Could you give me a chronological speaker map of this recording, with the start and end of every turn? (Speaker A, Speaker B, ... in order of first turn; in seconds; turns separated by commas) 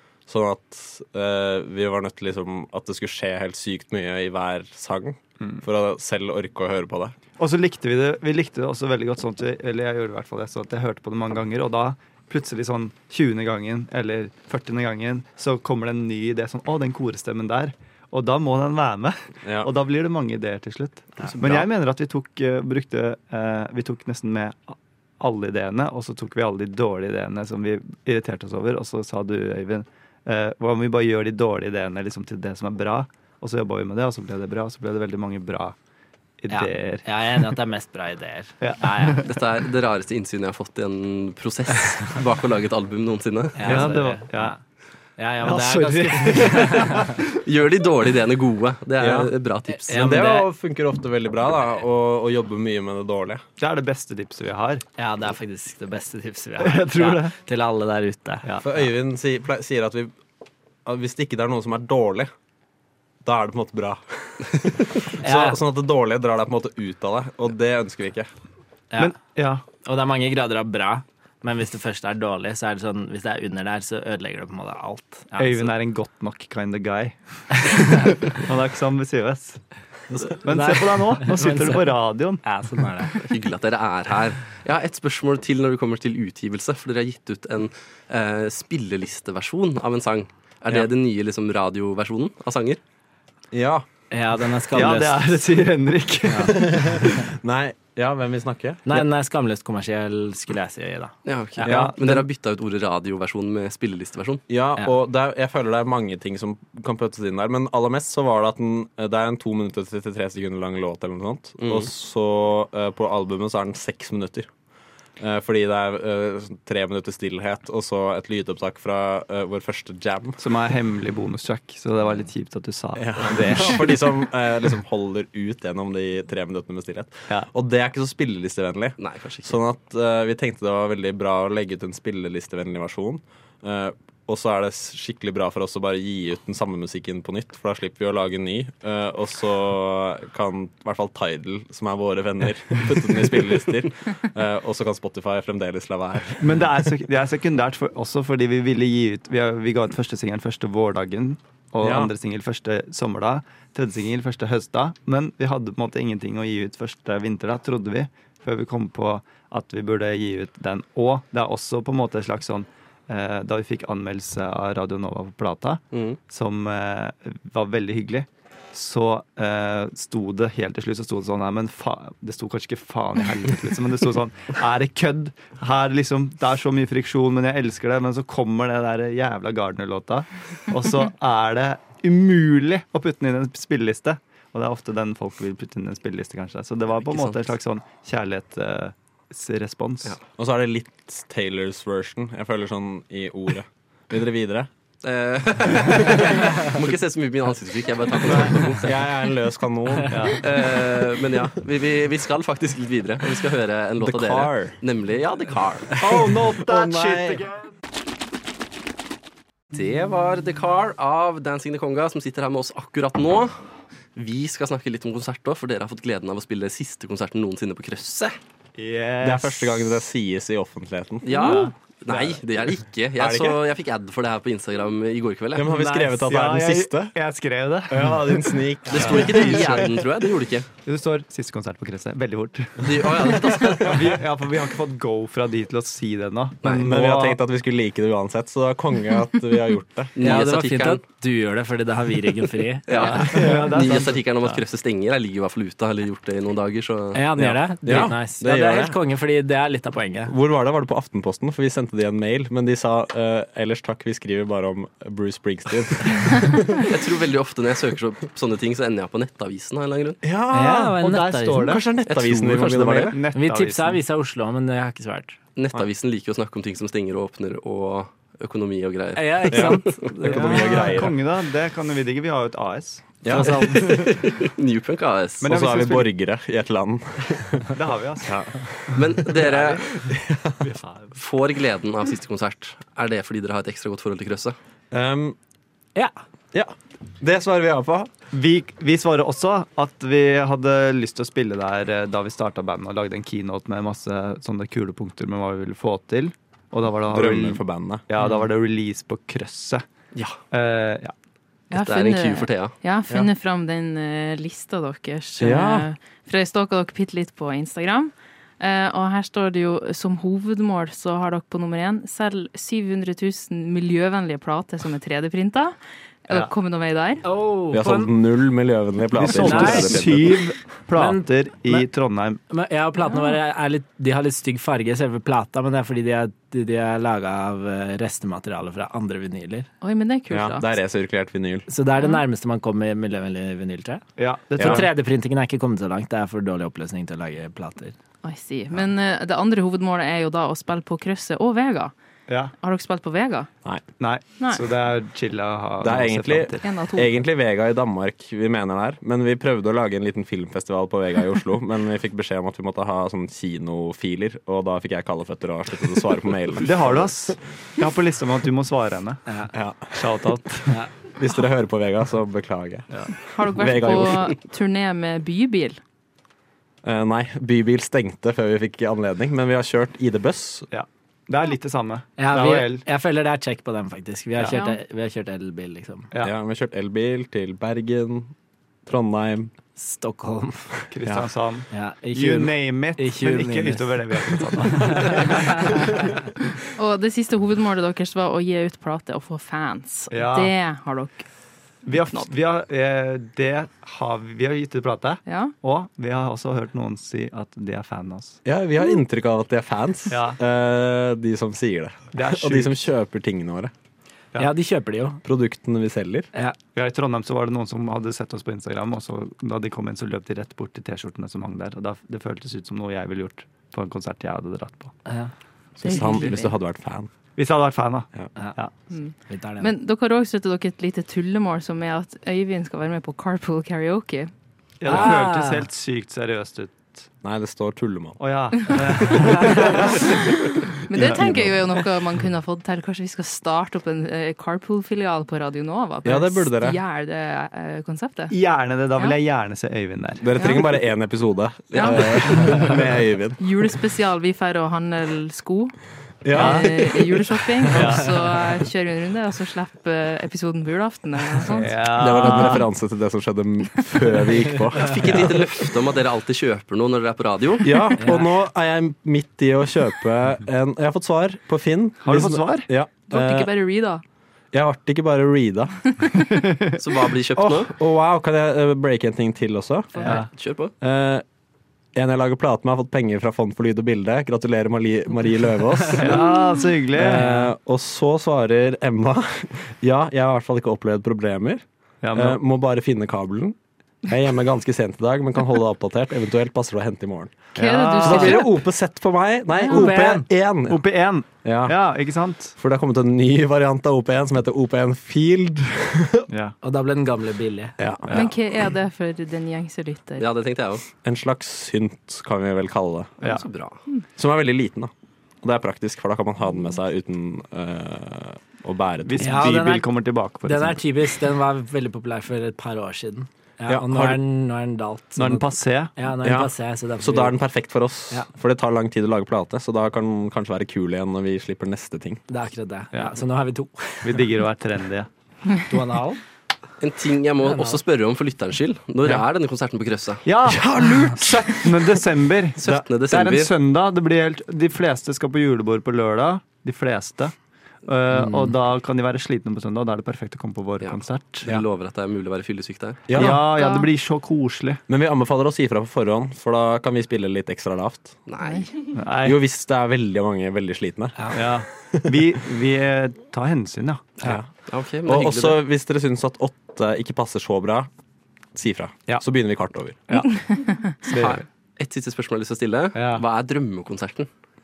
Speaker A: 0.2-7.1, Speaker B: 7.4-35.8, Speaker C: 21.2-21.6, Speaker B: 36.4-37.6, Speaker D: 36.5-39.2, Speaker B: 38.6-39.2, Speaker C: 39.2-43.9, Speaker D: 43.5-44.6, Speaker B: 43.6-44.6, Speaker D: 45.2-47.0, Speaker B: 45.4-47.2, Speaker C: 47.4-49.9, Speaker A: 49.0-49.3, Speaker D: 49.7-50.5, Speaker A: 49.9-53.4, Speaker B: 53.6-54.9, Speaker D: 55.0-58.4, Speaker B: 56.6-57.4, Speaker A: 58.6-60.1, Speaker A: 60.8-62.3, Speaker A: 63.2-68.3, Speaker D: 65.2-65.6, Speaker D: 68.9-75.7, Speaker B: 69.0-69.7, Speaker B: 75.4-82.4, Speaker D: 80.5-83.2, Speaker C: 83.2-92.8, Speaker A: 93.5-93.8, Speaker D: 94.1-95.5, Speaker B: 94.7-97.0, Speaker D: 96.3-96.6, Speaker A: 96.7-99.0, Speaker D: 98.8-101.9, Speaker C: 101.2-104.4, Speaker A: 101.6-102.2, Speaker B: 101.7-102.0, Speaker A: 104.5-114.5, Speaker C: 111.6-111.9, Speaker A: 115.2-120.4, Speaker B: 120.4-124.0, Speaker A: 122.9-146.8, Speaker C: 129.0-129.6, Speaker B: 146.4-190.2, Speaker A: 151.8-152.1, Speaker C: 165.9-166.2, Speaker C: 187.0-187.5, Speaker A: 190.4-194.7, Speaker C: 195.0-198.9, Speaker A: 198.8-200.3, Speaker B: 200.1-200.4, Speaker C: 200.4-205.9, Speaker A: 204.0-204.8, Speaker B: 206.0-207.7, Speaker A: 206.0-207.5, Speaker C: 209.7-218.4, Speaker B: 218.8-220.0, Speaker A: 219.2-223.6, Speaker C: 221.2-225.7, Speaker B: 221.4-221.7, Speaker A: 225.5-227.2, Speaker D: 225.7-226.2, Speaker B: 226.2-229.9, Speaker A: 227.9-229.9, Speaker C: 228.9-230.7, Speaker B: 230.8-237.4, Speaker C: 232.8-234.1, Speaker A: 236.8-240.2, Speaker C: 240.2-241.0, Speaker D: 240.2-243.7, Speaker C: 242.9-247.2, Speaker B: 243.1-244.6, Speaker D: 247.1-250.3, Speaker A: 247.4-248.9, Speaker A: 250.3-256.9, Speaker C: 256.8-260.2, Speaker A: 260.2-261.0, Speaker D: 260.5-261.8, Speaker B: 261.0-261.8, Speaker A: 261.6-263.2, Speaker C: 262.1-263.1, Speaker B: 263.1-264.0, Speaker D: 263.3-265.4, Speaker C: 265.6-270.1, Speaker D: 269.1-271.0, Speaker A: 269.5-271.2, Speaker B: 270.2-274.2, Speaker A: 273.2-274.1, Speaker C: 273.6-275.5, Speaker B: 275.4-276.1, Speaker A: 275.4-277.6, Speaker B: 277.7-281.1, Speaker A: 278.2-279.2, Speaker C: 278.9-280.1, Speaker A: 280.1-280.6, Speaker C: 281.1-284.6, Speaker A: 284.9-285.4, Speaker A: 286.5-288.1, Speaker B: 288.3-299.8, Speaker A: 297.1-298.0, Speaker C: 300.1-300.4, Speaker B: 300.5-301.1, Speaker E: 301.7-317.2, Speaker C: 301.7-302.7, Speaker A: 305.4-305.9, Speaker D: 317.2-318.1, Speaker A: 317.7-320.4, Speaker B: 319.1-322.4, Speaker D: 319.3-320.3, Speaker D: 320.9-321.9, Speaker D: 322.5-329.7, Speaker E: 323.1-323.4, Speaker E: 329.8-330.7, Speaker A: 330.3-331.6, Speaker D: 331.7-337.9, Speaker E: 332.0-332.2, Speaker B: 334.2-334.9, Speaker A: 334.6-334.9, Speaker E: 338.2-341.9, Speaker E: 342.5-343.5, Speaker B: 344.0-346.6, Speaker A: 345.8-357.4, Speaker E: 346.6-347.1, Speaker B: 356.6-359.3, Speaker D: 359.3-359.6, Speaker A: 359.5-360.4, Speaker B: 359.9-360.7, Speaker A: 361.1-364.3, Speaker E: 363.3-365.8, Speaker A: 366.8-370.7, Speaker B: 370.7-372.9, Speaker D: 372.2-376.1, Speaker E: 374.5-374.8, Speaker A: 376.2-379.5, Speaker D: 379.8-380.9, Speaker B: 380.9-385.3, Speaker D: 381.7-385.4, Speaker E: 386.8-392.3, Speaker B: 390.1-390.5, Speaker B: 391.8-398.4, Speaker E: 395.2-395.5, Speaker A: 398.4-403.7, Speaker B: 400.1-400.4, Speaker B: 402.1-402.8, Speaker D: 404.4-405.2, Speaker A: 405.2-406.3, Speaker B: 406.7-415.0, Speaker D: 415.1-415.3, Speaker A: 415.8-417.1, Speaker E: 415.8-416.5, Speaker B: 415.8-416.4, Speaker B: 417.4-418.7, Speaker E: 418.9-424.3, Speaker D: 419.2-419.7, Speaker B: 424.8-427.1, Speaker D: 424.9-425.7, Speaker A: 427.2-430.2, Speaker B: 428.2-430.3, Speaker D: 429.2-429.6, Speaker E: 430.9-438.4, Speaker B: 430.9-431.6, Speaker A: 431.1-431.5, Speaker A: 436.0-436.8, Speaker B: 438.3-440.2, Speaker A: 440.2-443.4, Speaker E: 440.4-440.6, Speaker C: 441.7-442.5, Speaker E: 441.7-442.0, Speaker E: 443.4-452.6, Speaker A: 446.2-447.3, Speaker B: 446.3-446.7, Speaker B: 447.7-448.1, Speaker B: 451.5-452.6, Speaker A: 451.9-455.4, Speaker C: 454.9-457.7, Speaker A: 457.6-463.5, Speaker D: 458.0-458.3, Speaker B: 462.0-462.7, Speaker E: 463.1-464.0, Speaker A: 464.5-465.9, Speaker B: 466.4-467.0, Speaker C: 466.8-467.7, Speaker A: 467.4-470.3, Speaker B: 470.0-470.3, Speaker C: 470.1-470.7, Speaker A: 470.8-471.2, Speaker A: 471.9-476.2, Speaker B: 476.0-477.3, Speaker D: 477.0-477.5, Speaker A: 477.0-496.3, Speaker B: 482.0-482.4, Speaker E: 487.5-488.5, Speaker B: 487.6-488.5, Speaker D: 489.7-490.3, Speaker B: 490.6-492.6, Speaker B: 496.3-496.6, Speaker D: 496.6-497.8, Speaker A: 497.8-498.6, Speaker B: 498.0-498.3, Speaker E: 498.1-500.2, Speaker C: 500.2-500.8, Speaker A: 501.0-503.2, Speaker C: 503.2-503.8, Speaker A: 504.1-509.5, Speaker B: 509.1-510.9, Speaker D: 509.2-517.4, Speaker A: 513.7-514.2, Speaker B: 515.1-516.0, Speaker A: 516.2-522.2, Speaker D: 522.3-524.3, Speaker B: 522.9-523.2, Speaker B: 524.0-525.1, Speaker D: 525.7-526.2, Speaker C: 526.8-530.2, Speaker D: 527.4-527.8, Speaker B: 530.2-541.5, Speaker A: 530.5-531.7, Speaker C: 532.6-533.5, Speaker D: 538.1-538.5, Speaker C: 540.8-543.0, Speaker A: 543.1-543.5, Speaker B: 543.1-544.8, Speaker E: 543.3-543.9, Speaker A: 544.9-548.2, Speaker C: 548.3-548.7, Speaker E: 548.4-548.7, Speaker B: 548.9-549.4, Speaker A: 549.2-552.0, Speaker D: 551.2-551.5, Speaker B: 551.3-554.4, Speaker A: 554.2-557.9, Speaker C: 554.7-555.6, Speaker A: 558.5-560.0, Speaker B: 559.1-561.4, Speaker C: 561.0-564.3, Speaker B: 562.9-563.2